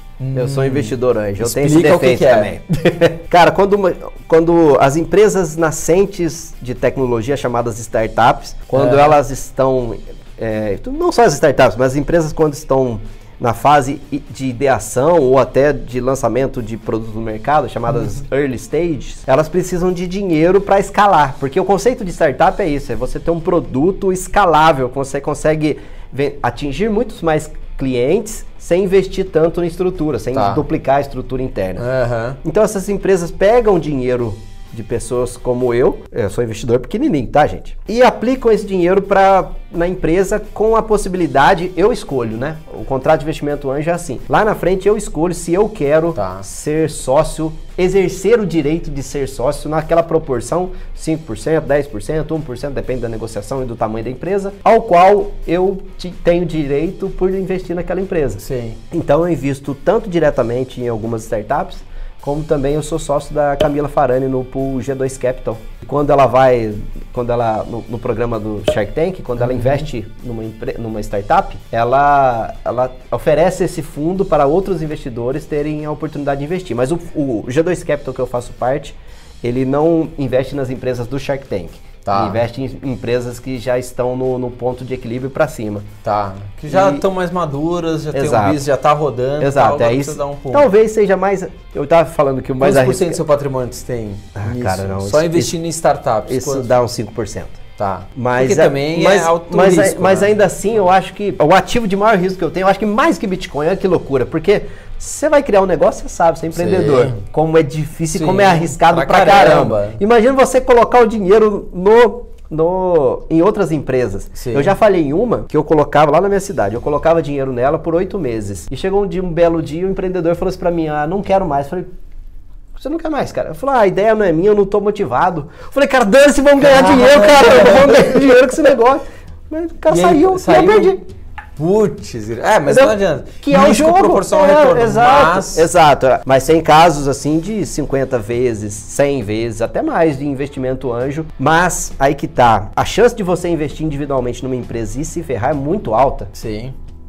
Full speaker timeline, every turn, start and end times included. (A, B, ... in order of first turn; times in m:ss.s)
0:00.2-0:02.5 A
0:00.3-0:31.8 B
0:08.7-0:09.1 A
0:30.3-0:30.6 A
0:31.8-0:32.4 A
0:32.4-1:25.9 B
0:46.2-0:46.5 A
0:58.4-0:58.8 A
1:09.4-1:09.8 A
1:22.0-1:22.4 A
1:26.0-1:30.7 A
1:26.7-1:27.0 B
1:28.1-1:28.6 B
1:29.4-1:33.2 B
1:32.6-1:36.8 A
1:34.4-1:35.6 B
1:36.3-1:37.6 B
1:37.8-1:40.5 A
1:38.1-2:01.9 B
1:46.5-1:47.2 A
1:48.1-1:50.0 A
1:54.4-1:54.7 A
2:02.8-2:11.0 B
2:06.6-2:08.6 A
2:09.9-2:11.0 A
2:11.6-2:15.7 A
2:12.7-2:26.3 B
2:26.3-2:26.7 A